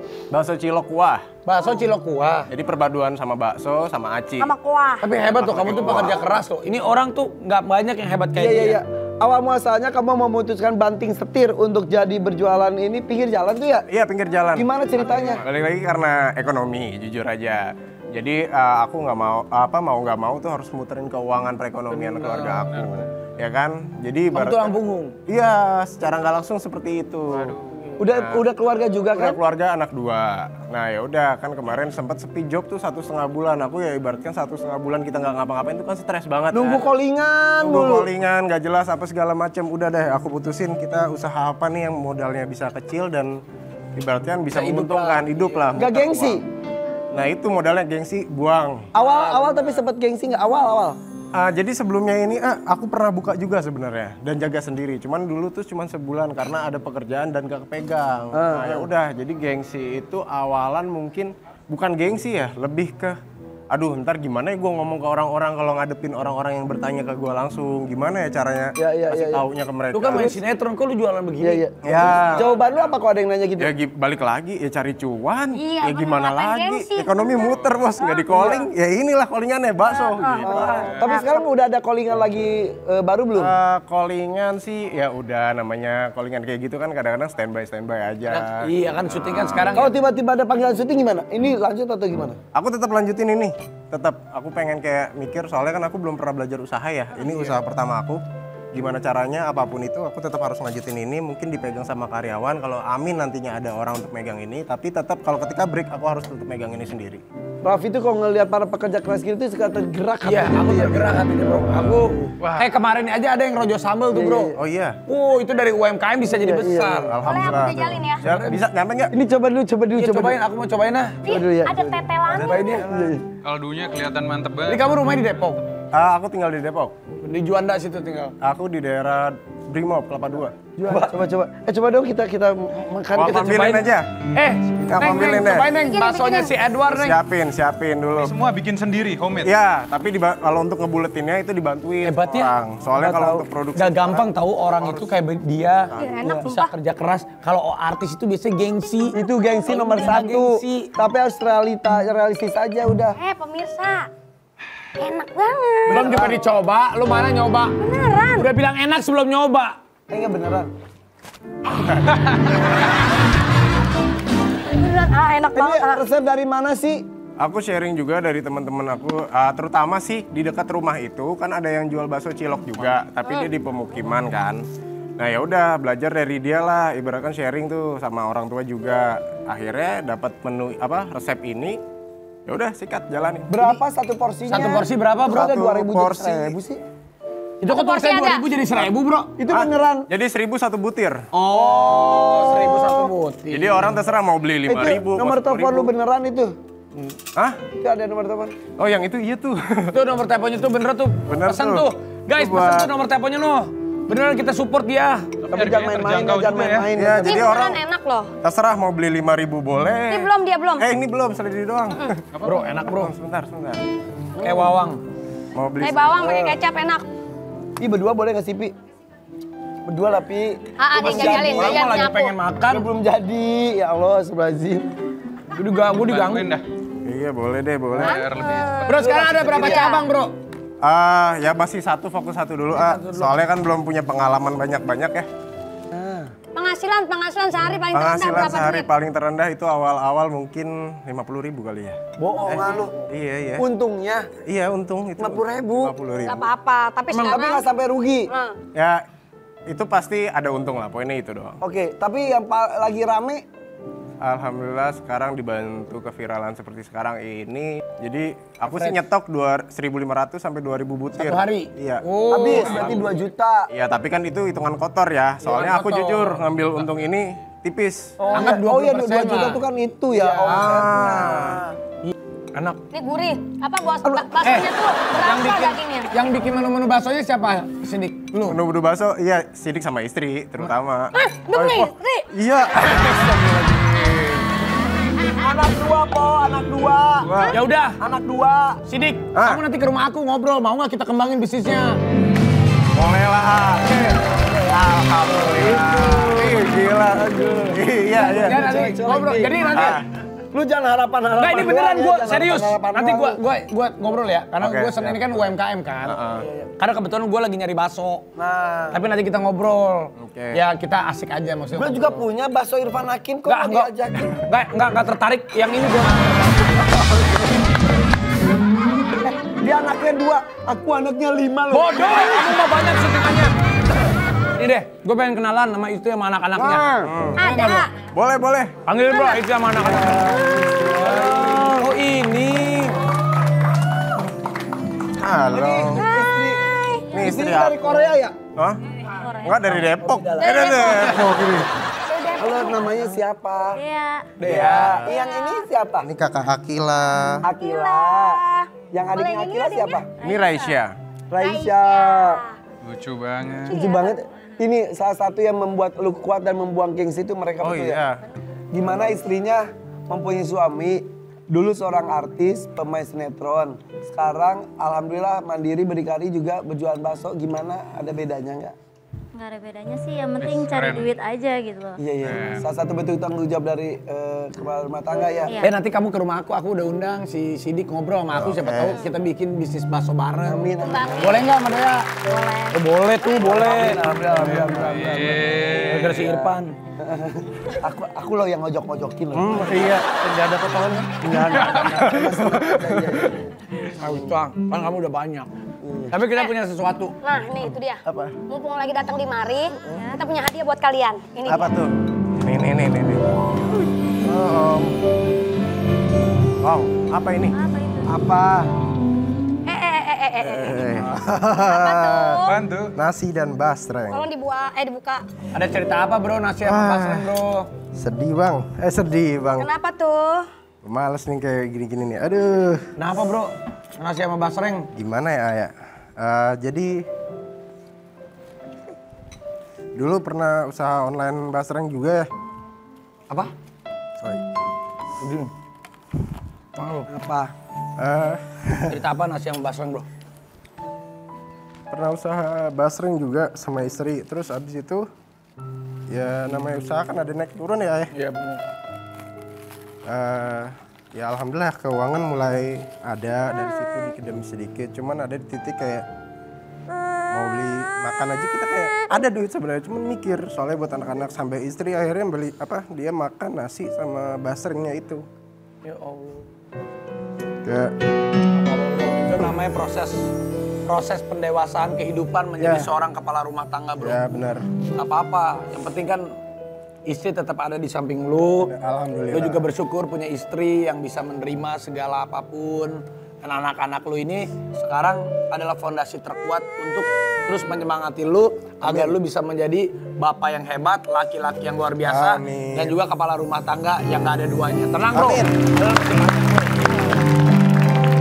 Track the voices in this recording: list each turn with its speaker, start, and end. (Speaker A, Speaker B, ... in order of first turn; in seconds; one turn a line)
Speaker A: 0.3-1.2
Speaker B: 1.4-2.5
Speaker A: 2.5-4.5
Speaker C: 4.4-5.1
Speaker B: 5.0-8.8
Speaker A: 5.3-6.2
Speaker D: 8.3-13.8
Speaker A: 13.9-24.7
Speaker D: 14.6-15.4
Speaker B: 21.9-22.6
Speaker B: 24.3-25.2
Speaker A: 25.3-27.6
Speaker E: 27.4-27.8
Speaker D: 28.0-29.4
Speaker A: 28.1-28.4
Speaker A: 29.1-36.9
Speaker D: 36.5-38.1
Speaker A: 37.6-43.3
Speaker A: 44.0-46.4
Speaker B: 44.5-45.5
Speaker D: 45.8-46.4
Speaker A: 47.1-48.9
Speaker D: 48.9-51.0
Speaker B: 49.0-49.8
Speaker A: 51.3-63.2
Speaker D: 58.3-58.9
Speaker A: 63.7-70.3
Speaker D: 68.8-69.4
Speaker B: 69.9-72.1
Speaker D: 71.4-73.7
Speaker A: 71.8-72.5
Speaker A: 73.6-81.0
Speaker C: 75.5-77.6
Speaker D: 78.3-78.7
Speaker C: 79.9-81.5
Speaker D: 80.4-83.5
Speaker E: 80.8-81.2
Speaker A: 83.3-89.8
Speaker B: 88.3-89.9
Speaker D: 89.7-92.4
Speaker A: 92.5-98.2
Speaker B: 97.2-97.6
Speaker A: 98.7-107.2
Speaker D: 107.6-112.3
Speaker B: 110.2-114.5
Speaker D: 114.1-114.6
Speaker A: 114.6-115.0
Speaker B: 115.0-117.1
Speaker D: 116.3-117.1
Speaker A: 117.1-119.1
Speaker C: 117.2-118.2
Speaker B: 118.2-118.6
Speaker D: 119.1-120.4
Speaker B: 119.9-121.2
Speaker C: 121.2-122.9
Speaker D: 121.2-123.2
Speaker E: 122.3-122.6
Speaker B: 122.4-122.8
Speaker E: 123.4-124.8
Speaker B: 124.7-125.6
Speaker A: 125.9-126.9
Speaker B: 127.2-128.3
Speaker A: 128.4-130.5
Speaker D: 130.8-133.8
Speaker A: 133.1-134.1
Speaker B: 133.4-137.2
Speaker A: 134.8-135.7
Speaker C: 135.8-136.5
Speaker A: 136.9-138.4
Speaker E: 138.2-139.5
Speaker A: 139.4-144.3
Speaker B: 142.0-142.6
Speaker D: 143.0-143.4
Speaker B: 143.7-150.9
Speaker A: 145.9-146.2
Speaker C: 145.9-146.7
Speaker D: 146.2-146.5
Speaker D: 149.1-153.2
Speaker C: 153.2-154.1
Speaker C: 155.0-156.2
Speaker B: 155.9-157.8
Speaker D: 155.9-156.4
Speaker C: 157.8-158.5
Speaker B: 158.3-159.8
Speaker D: 160.1-160.7
Speaker C: 164.7-166.0
Speaker D: 165.5-167.0
Speaker A: 167.4-174.6
Speaker A: 175.2-181.8
Speaker A: 182.4-183.6
Speaker D: 183.5-186.8
Speaker B: 184.5-185.5
Speaker A: 185.3-186.6
Speaker B: 187.6-189.3
Speaker C: 187.7-188.5
Speaker D: 189.4-190.1
Speaker A: 189.5-191.2
Speaker B: 191.3-193.9
Speaker D: 191.9-193.1
Speaker A: 193.5-195.9
Speaker D: 194.7-196.6
Speaker A: 196.9-197.6
Speaker D: 197.8-198.5
Speaker A: 198.8-199.9
Speaker B: 199.9-205.3
Speaker A: 201.3-202.9
Speaker E: 205.4-206.9
Speaker D: 205.5-207.5
Speaker A: 206.9-207.8
Speaker C: 207.2-208.3
Speaker A: 208.4-212.2
Speaker C: 210.1-210.9
Speaker E: 212.3-212.6
Speaker B: 212.4-213.1
Speaker A: 212.9-213.8
Speaker B: 214.4-215.0
Speaker A: 215.5-216.2
Speaker C: 215.8-217.1
Speaker D: 216.2-216.6
Speaker D: 217.8-218.7
Speaker D: 219.8-221.8
Speaker C: 220.8-222.3
Speaker B: 220.9-222.9
Speaker D: 222.7-224.8
Speaker B: 225.5-226.5
Speaker E: 226.0-226.6
Speaker A: 227.0-228.2
Speaker E: 228.0-229.6
Speaker C: 228.0-228.8
Speaker B: 228.8-230.3
Speaker D: 228.9-230.0
Speaker C: 229.7-230.1
Speaker A: 230.8-235.3
Speaker B: 232.7-233.4
Speaker D: 235.9-236.3
Speaker C: 236.5-238.9
Speaker A: 237.9-243.7
Speaker D: 242.2-242.9
Speaker D: 243.6-244.3
Speaker A: 244.4-246.5
Speaker D: 245.2-245.9
Speaker C: 246.2-247.7
Speaker B: 247.1-247.4
Speaker D: 247.2-248.3
Speaker C: 248.3-248.6
Speaker A: 248.7-249.0
Speaker A: 249.7-251.6
Speaker D: 251.6-253.4
Speaker A: 254.2-263.1
Speaker B: 258.7-259.0
Speaker B: 261.1-263.1
Speaker D: 262.3-263.6
Speaker A: 263.7-268.2
Speaker B: 265.4-266.5
Speaker D: 268.2-271.7
Speaker B: 268.3-270.9
Speaker A: 270.4-271.6
Speaker B: 272.0-272.8
Speaker C: 272.9-276.1
Speaker B: 274.4-278.6
Speaker A: 278.5-284.0
Speaker C: 281.1-282.3
Speaker D: 285.4-288.8
Speaker A: 287.2-287.6
Speaker B: 287.5-288.0
Speaker B: 288.9-292.0
Speaker A: 289.3-289.6
Speaker A: 292.9-293.9
Speaker B: 293.9-296.4
Speaker D: 295.2-296.1
Speaker A: 295.4-298.7
Speaker D: 297.1-300.0
Speaker B: 298.2-300.0
Speaker A: 299.6-300.0
Speaker D: 300.5-303.4
Speaker B: 301.4-306.2
Speaker A: 304.6-305.4
Speaker A: 306.0-306.5
Speaker D: 306.4-306.7
Speaker B: 306.8-308.3
Speaker D: 308.4-309.0
Speaker B: 308.9-312.2
Speaker A: 310.2-310.6
Speaker D: 311.8-314.4
Speaker B: 313.4-317.3
Speaker D: 319.2-322.5
Speaker B: 321.7-323.5
Speaker B: 324.6-327.8
Speaker A: 327.0-328.7
Speaker C: 327.4-327.9
Speaker B: 328.9-333.0
Speaker D: 329.8-331.9
Speaker A: 335.2-336.1
Speaker D: 335.5-336.6
Speaker C: 336.0-337.1
Speaker A: 337.1-337.9
Speaker D: 337.1-338.3
Speaker A: 338.5-338.8
Speaker F: 339.1-339.6
Speaker A: 339.4-341.7
Speaker D: 340.0-341.4
Speaker C: 340.4-341.3
Speaker C: 342.1-343.0
Speaker D: 342.4-343.8
Speaker F: 343.7-344.3
Speaker B: 344.4-345.1
Speaker A: 344.4-345.1
Speaker D: 344.5-346.1
Speaker A: 346.0-347.4
Speaker D: 347.4-350.1
Speaker C: 347.5-350.1
Speaker F: 350.2-350.7
Speaker A: 350.2-350.9
Speaker D: 351.3-352.4
Speaker C: 351.4-352.6
Speaker E: 352.8-353.8
Speaker C: 353.6-354.2
Speaker D: 353.7-358.0
Speaker A: 357.6-358.2
Speaker D: 358.7-368.7
Speaker F: 369.3-372.0
Speaker E: 370.4-371.1
Speaker D: 372.0-375.5
Speaker E: 372.2-372.6
Speaker B: 375.6-382.1
Speaker A: 378.4-379.1
Speaker D: 380.4-381.5
Speaker C: 380.8-381.5
Speaker C: 382.3-382.8
Speaker B: 382.7-384.0
Speaker D: 383.3-389.9
Speaker E: 384.4-386.3
Speaker B: 385.8-386.7
Speaker A: 389.3-393.2
Speaker D: 391.2-393.4
Speaker E: 391.5-391.8
Speaker B: 394.0-395.5
Speaker D: 395.8-396.1
Speaker B: 396.1-397.1
Speaker C: 397.2-401.7
Speaker A: 397.6-398.4
Speaker F: 399.8-400.2
Speaker A: 401.4-405.0
Speaker A: 406.6-407.5
Speaker F: 407.5-408.2
Speaker D: 408.1-408.7
Speaker C: 409.6-411.0
Speaker A: 410.4-414.3
Speaker C: 411.6-412.6
Speaker E: 412.4-412.9
Speaker C: 414.1-415.3
Speaker B: 415.5-417.7
Speaker A: 416.6-417.3
Speaker A: 417.9-419.7
Speaker C: 419.6-420.5
Speaker A: 420.8-422.9
Speaker B: 423.0-424.9
Speaker A: 424.9-427.1
Speaker A: 429.9-432.3
Speaker B: 435.2-435.5
Speaker B: 436.8-437.1
Speaker D: 437.1-437.5
Speaker A: 438.0-439.0
Speaker B: 438.9-440.1
Speaker A: 441.9-445.1
Speaker A: 446.1-448.1
Speaker B: 448.1-448.6
Speaker A: 450.1-456.0
Speaker A: 457.3-465.2
Speaker B: 465.8-466.4
Speaker A: 467.6-467.9
Speaker B: 468.5-470.3
Speaker B: 470.9-474.2
Speaker A: 472.6-472.9
Speaker A: 474.0-474.7
Speaker B: 474.9-476.3
Speaker B: 477.1-478.7
Speaker A: 478.6-479.6
Speaker B: 479.3-497.1
Speaker D: 488.9-489.1
Speaker A: 492.1-493.0
Speaker A: 495.1-495.5